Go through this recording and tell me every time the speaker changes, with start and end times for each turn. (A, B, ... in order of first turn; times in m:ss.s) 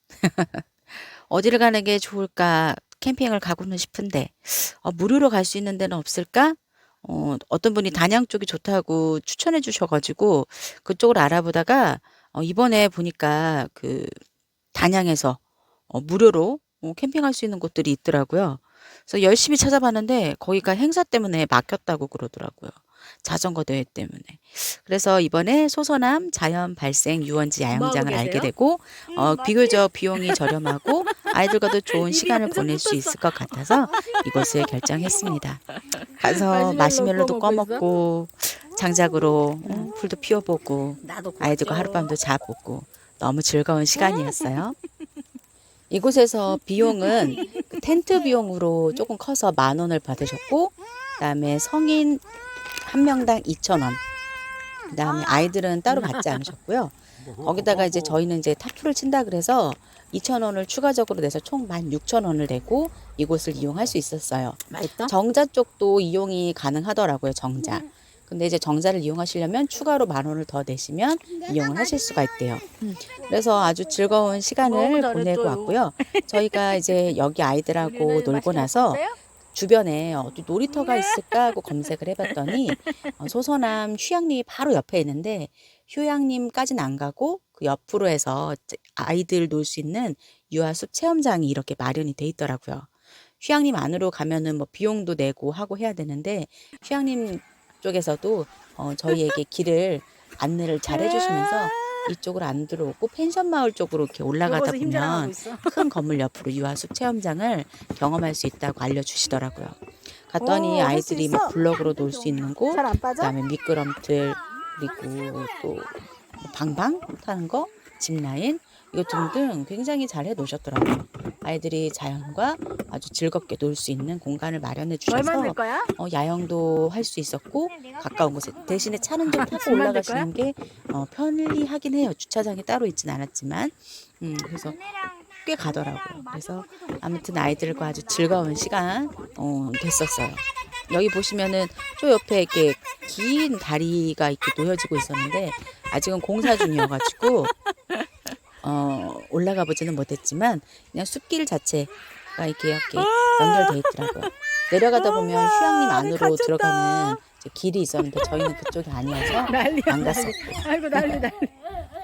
0:00.2-0:14.2 A
0:14.7-0:44.8 A
0:27.7-0:28.5 B
0:29.2-0:30.4 B
0:31.0-0:31.3 B
0:31.9-0:35.4 B
0:35.9-0:37.9 B
0:39.6-0:39.9 B
0:41.0-0:42.1 B
0:43.9-0:44.6 B
0:45.9-0:52.2 A
0:46.5-0:48.2 B
0:52.8-0:54.0 A
0:54.9-2:27.5 A
0:55.9-0:56.2 B
1:04.7-1:05.1 B
1:14.6-1:17.0 B
1:17.8-1:19.2 B
1:20.7-1:21.8 B
1:22.5-1:23.1 B
1:40.9-1:42.1 B
1:44.4-1:45.8 B
1:50.4-1:51.6 B
1:52.7-1:53.3 B
2:05.1-2:05.9 B
2:09.3-2:10.3 B
2:26.4-2:26.7 B
2:28.6-2:41.2 A
2:33.0-2:34.3 B
2:34.9-2:36.7 B
2:39.2-2:41.6 B